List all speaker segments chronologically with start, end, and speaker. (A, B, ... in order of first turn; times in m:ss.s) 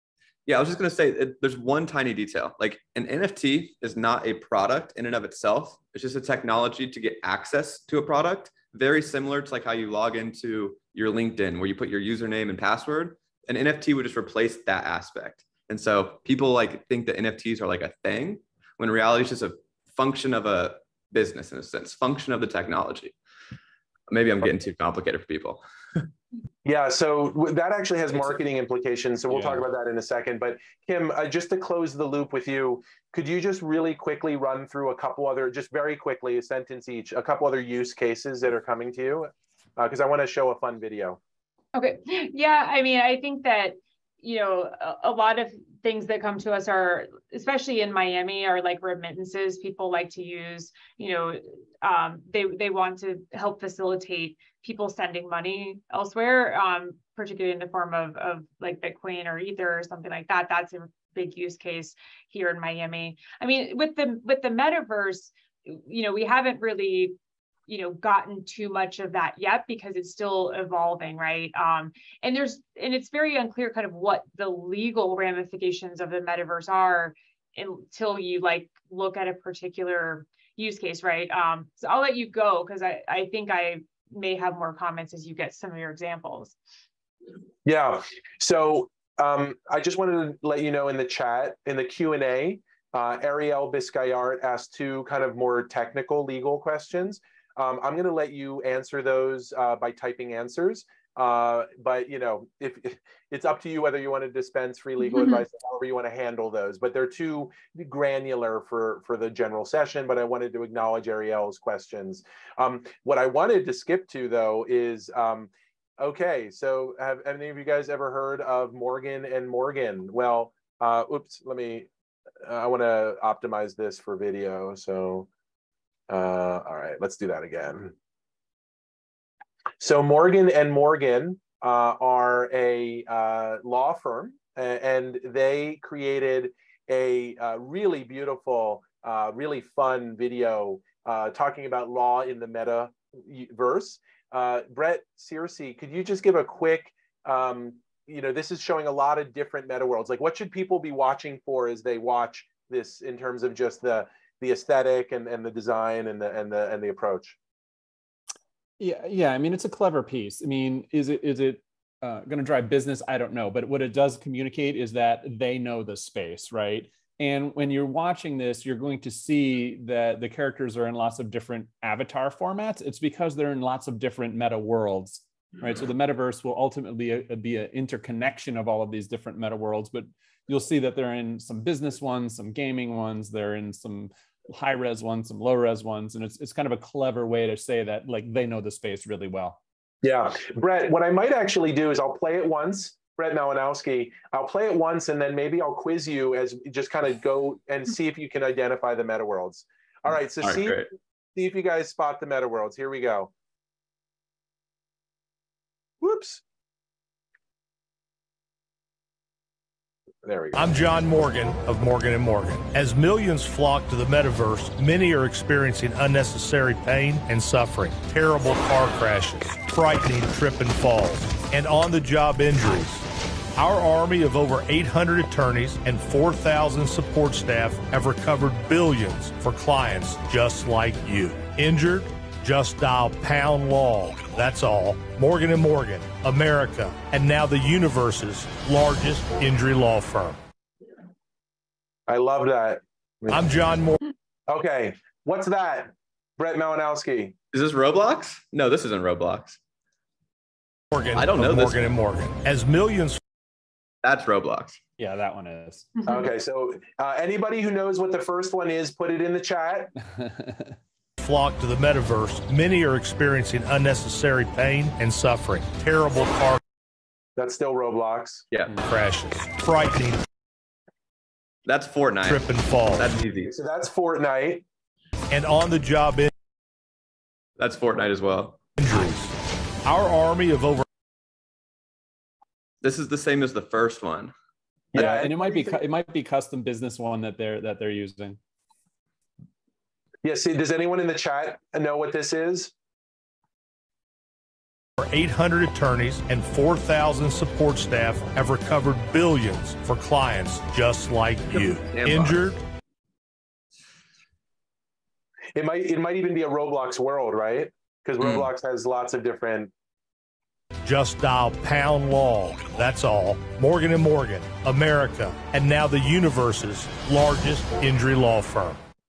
0:00.4-0:23.1 A
0:24.1-0:26.1 A
0:26.6-0:41.2 B
0:29.3-0:29.6 C
0:41.7-1:26.6 D
1:27.6-2:01.9 B
1:45.1-1:45.4 D
2:02.4-2:05.3 B
2:06.1-2:07.9 B
2:09.8-2:37.4 B
2:38.8-3:09.6 C
3:10.0-3:23.3 B
3:20.4-3:20.9 A
3:26.0-3:26.4 B
3:30.2-3:30.8 B
3:30.5-4:00.4 E
4:02.1-4:03.4 B
4:03.3-4:04.0 E
4:04.5-4:07.3 B
4:07.5-4:09.6 A
4:10.9-4:13.2 E
4:11.1-4:11.8 A
4:14.0-4:14.8 A
4:15.0-4:15.9 C
4:16.1-4:19.9 B
4:20.2-4:20.7 C
4:21.2-4:26.6 E
4:27.4-4:28.4 B
4:28.8-4:30.2 E
4:31.6-4:33.5 A
4:32.2-4:33.1 E
4:33.5-4:34.6 B
4:35.3-4:36.3 E
4:37.6-4:38.6 A
4:38.8-4:40.8 E
4:42.8-4:44.3 A
4:44.9-4:45.8 B
4:44.9-4:48.4 C
4:50.2-4:52.7 B
4:55.0-5:02.6 E
5:01.5-5:02.4 A
5:05.5-5:09.7 B
5:08.2-5:08.5 A
5:10.8-5:18.8 E